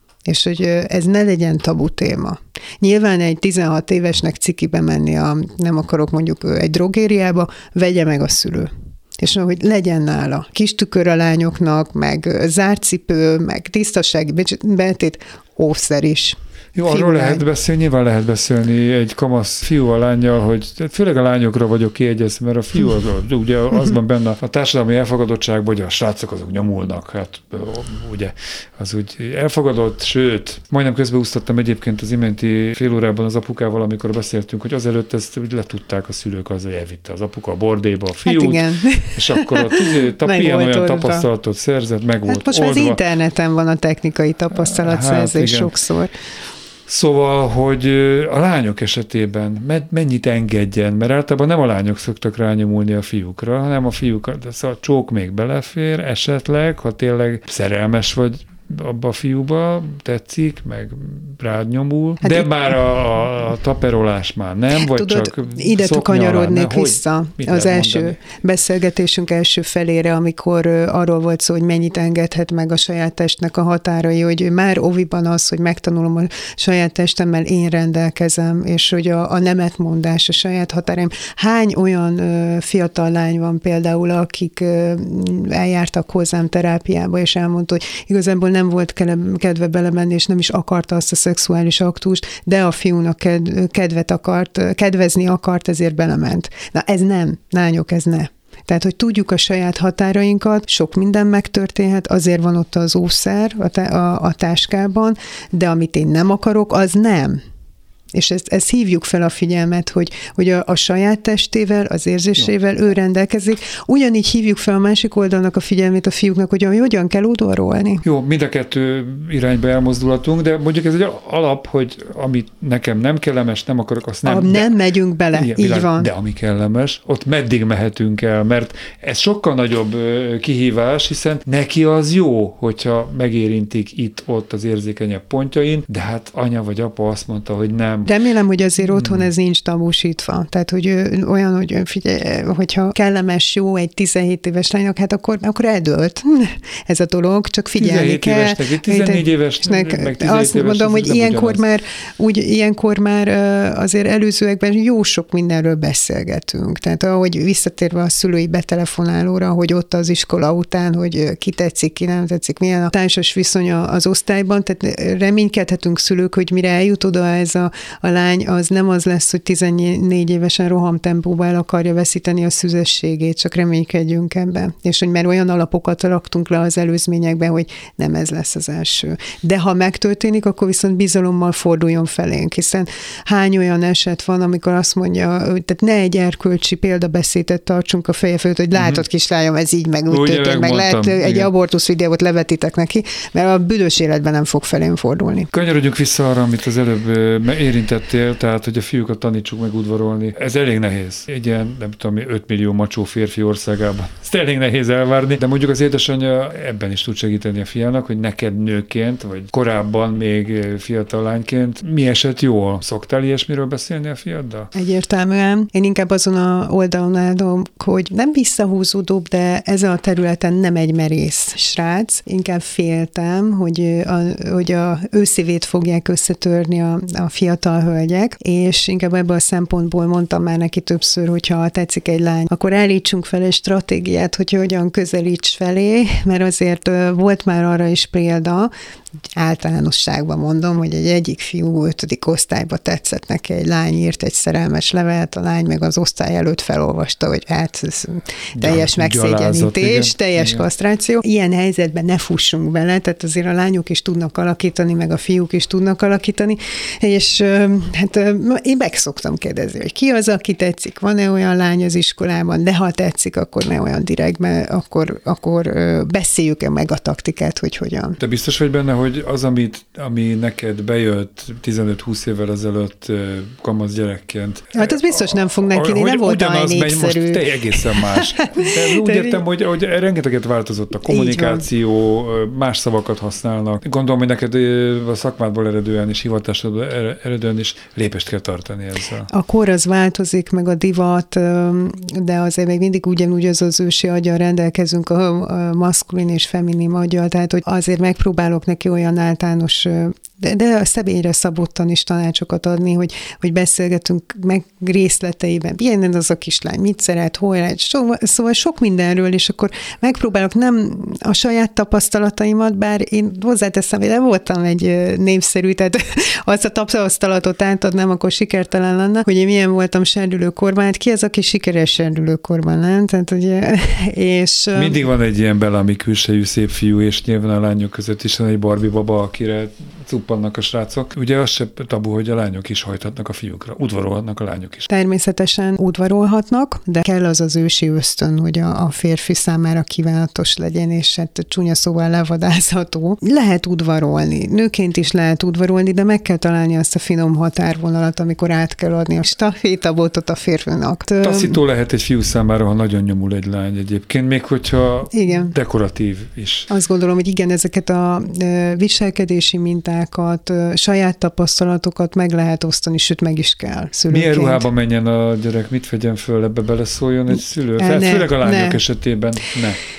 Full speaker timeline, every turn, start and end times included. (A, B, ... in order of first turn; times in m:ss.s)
0:00.3-0:17.5 A
0:16.8-0:43.0 B
0:38.2-0:41.3 A
0:42.3-0:46.1 A
0:44.5-0:45.8 B
0:46.9-1:08.2 B
1:02.2-1:02.7 A
1:04.8-1:47.4 A
1:48.1-1:58.0 A
1:58.0-2:04.8 B
2:04.2-2:06.1 A
2:05.3-2:18.1 B
2:18.0-3:15.5 A
2:18.9-2:19.3 B
2:27.8-2:31.6 B
3:08.8-3:09.0 B
3:10.1-3:11.5 B
3:15.5-3:34.7 B
3:34.7-3:58.7 A
3:59.4-4:28.2 A
4:08.6-4:10.6 B
4:28.2-4:49.3 B
4:34.7-4:39.4 A
4:41.1-4:41.6 A
4:49.3-5:25.0 A
5:24.7-5:34.9 B
5:34.9-5:51.6 A
5:51.2-5:56.7 B
5:55.1-5:55.5 A
5:56.7-6:04.7 A
6:04.1-6:09.8 B
6:07.8-6:08.8 A